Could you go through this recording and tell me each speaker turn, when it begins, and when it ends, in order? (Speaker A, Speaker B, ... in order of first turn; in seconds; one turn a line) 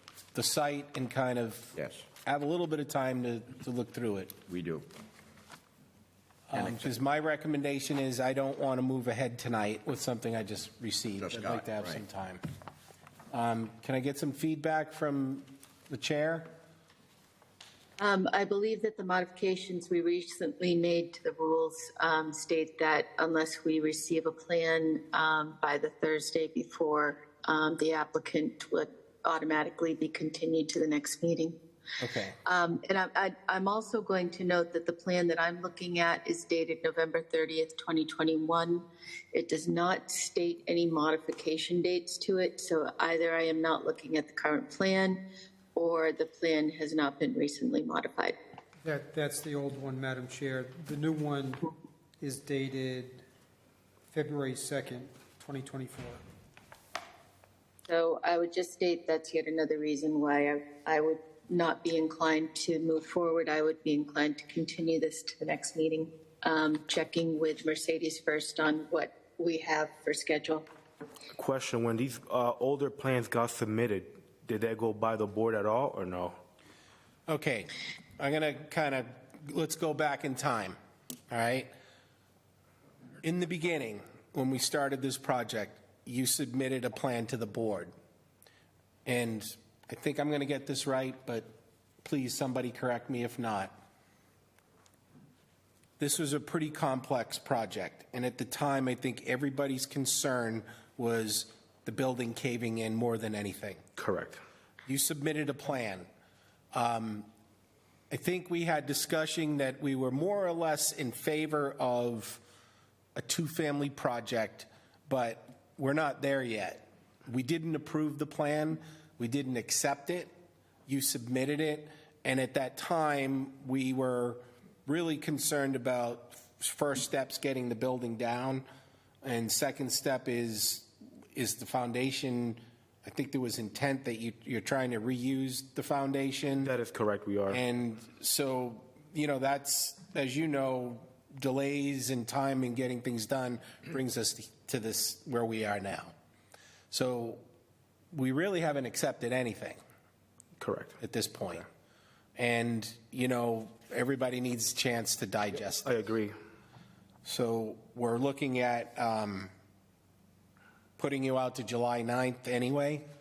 Speaker A: 0.3-1.8
Speaker B: 1.8-2.1
Speaker A: 2.3-4.3
Speaker B: 4.5-4.9
Speaker A: 6.5-12.4
Speaker B: 6.5-6.8
Speaker B: 11.2-12.0
Speaker A: 13.3-16.5
Speaker C: 18.0-31.6
Speaker A: 32.0-32.4
Speaker C: 32.5-45.2
Speaker C: 45.8-48.4
Speaker D: 48.8-51.7
Speaker D: 52.2-53.2
Speaker D: 54.1-56.2
Speaker C: 57.9-70.7
Speaker E: 71.3-76.4
Speaker A: 77.3-80.8
Speaker A: 81.3-81.7
Speaker A: 83.2-87.9
Speaker A: 89.1-91.5
Speaker A: 92.0-93.7
Speaker A: 96.0-103.8
Speaker E: 104.0-104.4
Speaker A: 104.9-106.1
Speaker A: 106.7-107.3
Speaker A: 108.1-112.4
Speaker A: 113.2-120.3
Speaker A: 120.9-128.7
Speaker A: 129.2-136.7
Speaker E: 136.6-137.6
Speaker A: 137.5-146.1
Speaker A: 146.9-147.4
Speaker A: 148.1-149.8
Speaker E: 150.6-151.0
Speaker A: 151.0-151.7
Speaker A: 152.4-155.8
Speaker E: 155.8-156.3
Speaker A: 157.2-159.5
Speaker A: 161.0-163.0